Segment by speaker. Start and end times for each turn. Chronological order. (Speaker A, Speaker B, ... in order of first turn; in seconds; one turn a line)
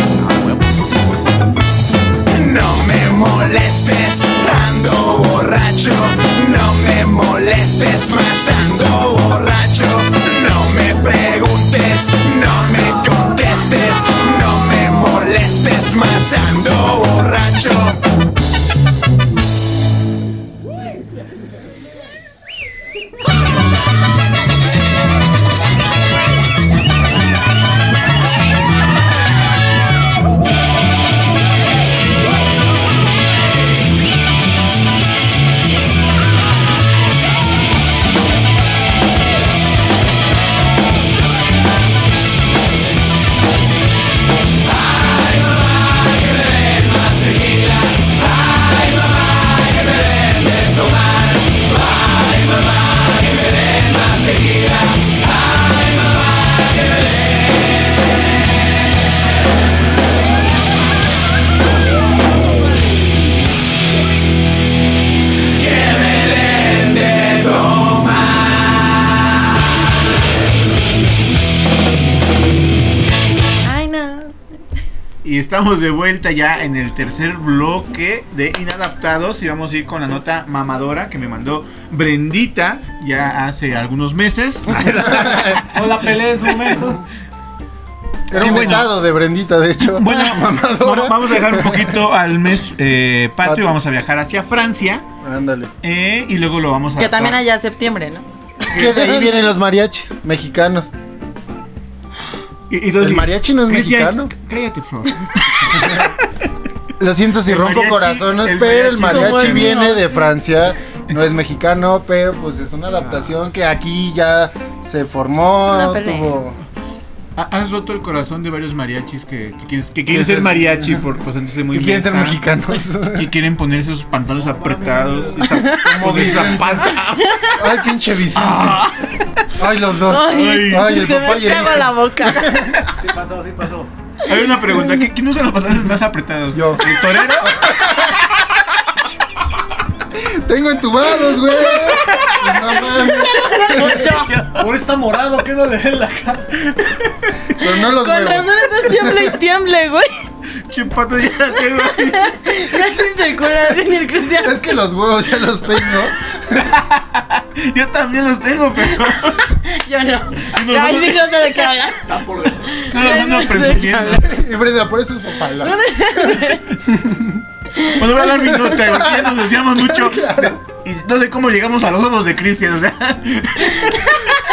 Speaker A: 2.3-18.0
Speaker B: 73.6-74.4
Speaker C: 75.2-85.8
Speaker D: 84.9-85.7
Speaker E: 85.7-87.0
Speaker D: 88.3-92.0
Speaker C: 88.3-88.9
Speaker C: 90.0-95.0
Speaker D: 93.4-93.7
Speaker D: 95.2-95.7
Speaker C: 95.8-97.4
Speaker B: 97.0-98.2
Speaker C: 98.7-99.3
Speaker D: 98.7-100.9
Speaker C: 102.7-106.2
Speaker D: 103.0-104.3
Speaker D: 107.0-116.6
Speaker C: 107.5-109.8
Speaker B: 109.1-110.2
Speaker C: 113.0-113.3
Speaker B: 115.7-116.4
Speaker C: 117.4-122.5
Speaker D: 120.1-121.0
Speaker D: 121.7-123.3
Speaker C: 123.1-127.4
Speaker E: 124.4-125.6
Speaker B: 125.5-126.2
Speaker D: 125.8-127.0
Speaker B: 127.0-127.6
Speaker D: 127.6-128.9
Speaker C: 128.3-129.1
Speaker D: 129.5-132.8
Speaker B: 130.1-132.5
Speaker C: 130.3-130.9
Speaker C: 132.4-132.8
Speaker E: 133.0-133.9
Speaker C: 134.2-138.0
Speaker D: 136.5-138.3
Speaker D: 140.1-144.2
Speaker B: 141.6-144.6
Speaker E: 144.6-146.5
Speaker D: 147.6-149.4
Speaker B: 147.6-150.1
Speaker C: 150.7-152.4
Speaker B: 151.8-154.7
Speaker D: 154.4-156.7
Speaker C: 156.6-159.6
Speaker B: 159.5-162.0
Speaker C: 160.4-161.5
Speaker E: 162.0-162.8
Speaker B: 162.7-164.3
Speaker C: 162.9-164.3
Speaker D: 164.2-167.4
Speaker B: 165.6-166.8
Speaker C: 167.9-174.4
Speaker D: 168.7-170.6
Speaker B: 173.7-174.3